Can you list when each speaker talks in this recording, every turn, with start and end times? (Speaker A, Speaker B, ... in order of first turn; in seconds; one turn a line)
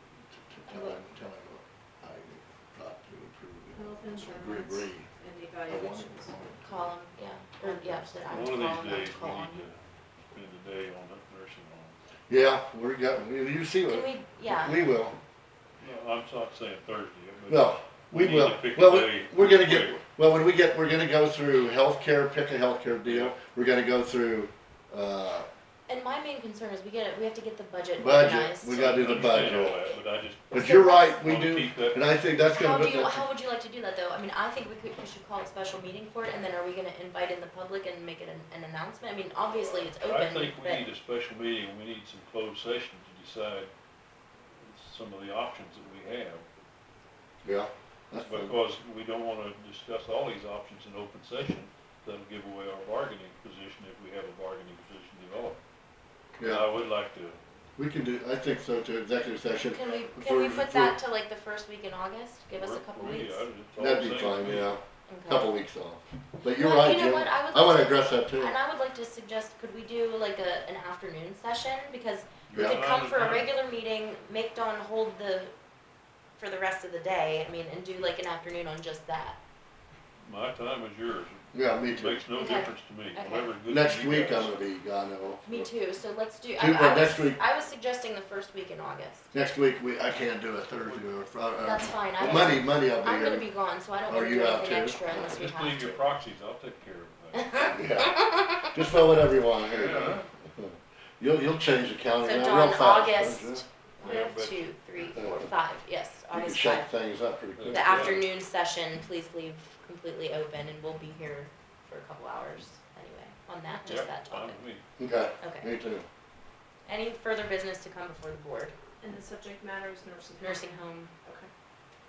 Speaker A: 0.3-5.1
Speaker B: 3.7-6.3
Speaker A: 5.7-6.9
Speaker C: 6.6-9.6
Speaker B: 7.6-8.1
Speaker D: 8.3-9.8
Speaker D: 10.3-11.9
Speaker A: 12.3-15.2
Speaker C: 13.9-14.9
Speaker D: 15.8-20.0
Speaker A: 17.5-25.5
Speaker D: 23.1-23.3
Speaker C: 25.9-29.5
Speaker A: 28.0-29.8
Speaker D: 28.8-32.0
Speaker A: 30.5-33.2
Speaker C: 30.5-31.2
Speaker C: 32.5-40.9
Speaker D: 39.6-43.7
Speaker D: 44.5-46.5
Speaker A: 47.4-48.6
Speaker D: 48.2-55.6
Speaker A: 56.4-56.7
Speaker D: 56.4-57.4
Speaker A: 57.8-61.0
Speaker C: 59.7-63.5
Speaker D: 62.5-64.8
Speaker A: 63.8-68.6
Speaker C: 65.1-65.5
Speaker C: 66.5-75.5
Speaker D: 72.5-73.5
Speaker A: 72.5-72.8
Speaker C: 76.4-79.4
Speaker D: 80.2-84.6
Speaker A: 81.5-82.2
Speaker C: 82.3-83.5
Speaker A: 83.7-85.7
Speaker C: 85.5-89.3
Speaker A: 86.6-87.4
Speaker A: 89.3-93.5
Speaker C: 91.6-96.0
Speaker A: 94.1-95.2
Speaker D: 95.2-97.5
Speaker C: 97.3-99.0
Speaker A: 97.7-103.6
Speaker D: 99.6-100.3
Speaker C: 102.2-106.9
Speaker D: 104.0-104.6
Speaker A: 105.0-105.5
Speaker A: 106.3-108.2
Speaker D: 107.5-108.3
Speaker C: 107.7-114.6
Speaker D: 113.8-114.8
Speaker A: 115.0-116.0
Speaker C: 115.4-115.7
Speaker C: 116.9-118.7
Speaker B: 119.0-121.5
Speaker C: 120.4-121.1